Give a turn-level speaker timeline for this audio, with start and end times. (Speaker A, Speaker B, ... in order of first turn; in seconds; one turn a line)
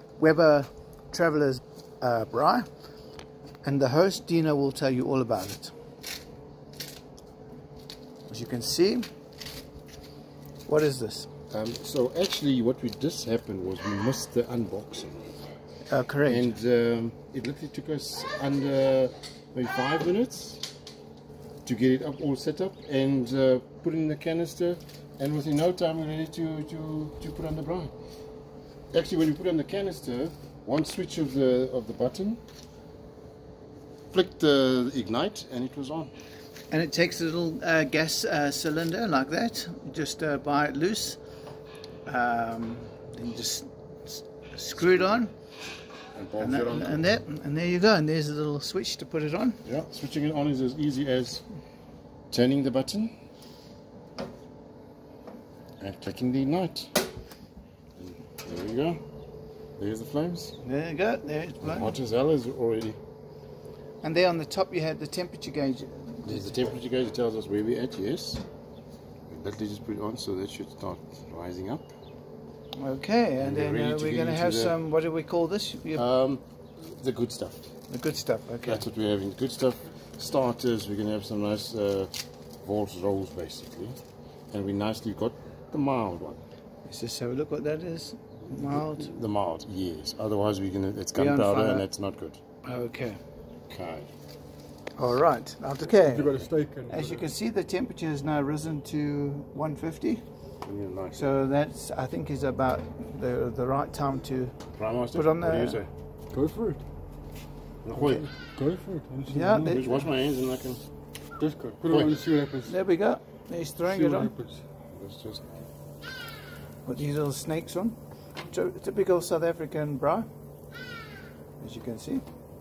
Speaker A: 0.2-2.7
Speaker A: 3.6-5.7
Speaker A: 8.3-9.1
Speaker A: 10.7-11.3
Speaker B: 11.5-15.2
Speaker A: 15.9-16.5
Speaker B: 16.2-20.6
Speaker B: 21.6-27.9
Speaker B: 28.9-32.4
Speaker B: 34.1-36.1
Speaker A: 36.7-41.2
Speaker A: 42.0-45.3
Speaker B: 46.1-47.0
Speaker A: 46.4-49.6
Speaker B: 49.6-51.4
Speaker B: 52.3-53.1
Speaker B: 55.8-57.0
Speaker B: 58.0-59.0
Speaker B: 59.8-60.5
Speaker A: 60.6-61.9
Speaker B: 61.6-63.0
Speaker A: 64.0-66.4
Speaker B: 66.2-68.4
Speaker B: 69.3-71.9
Speaker A: 72.8-76.0
Speaker B: 73.4-74.8
Speaker B: 75.9-77.7
Speaker A: 77.9-78.8
Speaker B: 78.6-84.0
Speaker B: 84.5-86.4
Speaker A: 86.8-89.1
Speaker B: 88.5-92.4
Speaker A: 91.1-91.8
Speaker A: 92.6-93.2
Speaker B: 93.7-94.1
Speaker A: 95.0-96.3
Speaker C: 95.8-97.3
Speaker A: 96.9-100.2
Speaker B: 100.6-101.3
Speaker A: 101.1-105.8
Speaker B: 104.7-105.9
Speaker C: 106.3-106.8
Speaker B: 107.8-108.3
Speaker C: 108.0-109.9
Speaker A: 109.3-109.9
Speaker B: 109.7-110.8
Speaker C: 111.4-112.8
Speaker B: 111.9-112.2
Speaker A: 112.7-114.3
Speaker C: 113.8-114.6
Speaker B: 114.9-115.6
Speaker A: 116.8-120.3
Speaker A: 121.6-122.2